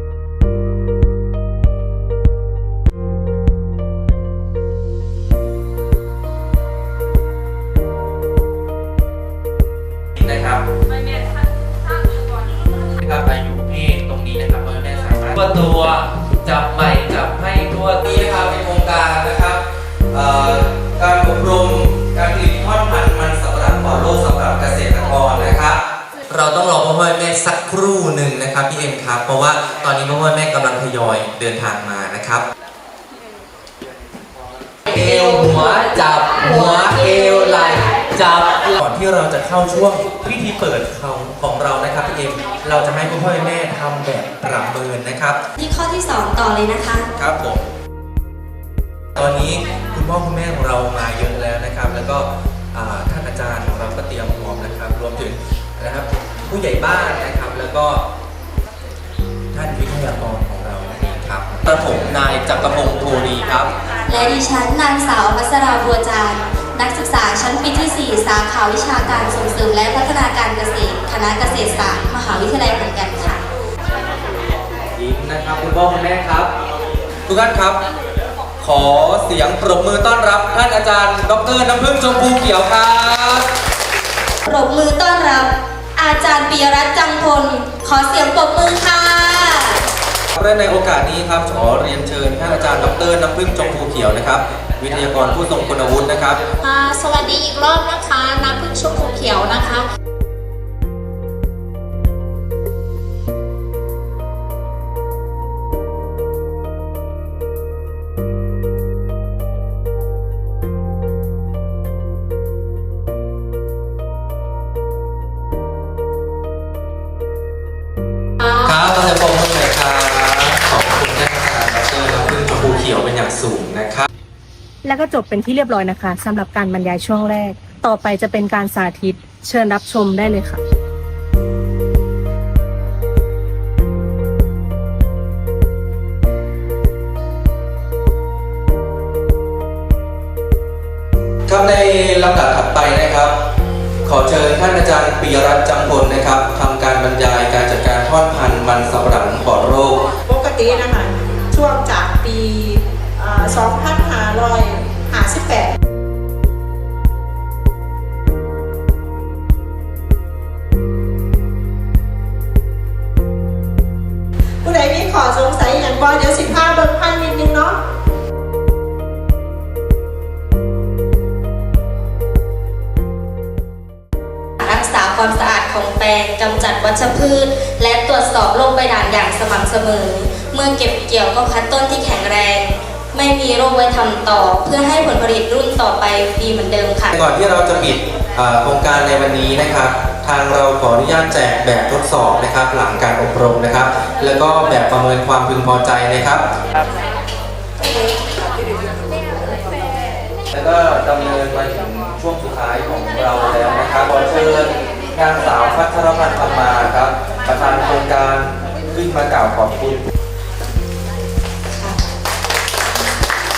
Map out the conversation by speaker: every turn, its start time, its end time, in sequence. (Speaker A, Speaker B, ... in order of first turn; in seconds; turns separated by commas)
Speaker A: 10.2-10.7, Speaker A: 12.8-32.5, Speaker A: 34.9-45.4, Speaker B: 45.6-47.1, Speaker A: 47.2-47.6, Speaker A: 49.2-58.0, Speaker A: 59.5-63.7, Speaker B: 64.1-73.4, Speaker A: 75.0-76.5, Speaker A: 77.3-77.8, Speaker A: 78.6-83.5, Speaker B: 84.5-89.8, Speaker A: 90.4-96.4, Speaker C: 96.6-99.9, Speaker A: 118.4-124.1, Speaker D: 124.8-130.6, Speaker A: 141.5-143.3, Speaker A: 144.1-150.1, Speaker E: 150.3-155.8, Speaker E: 164.6-167.8, Speaker B: 174.6-187.1, Speaker A: 187.1-196.4, Speaker A: 200.5-210.1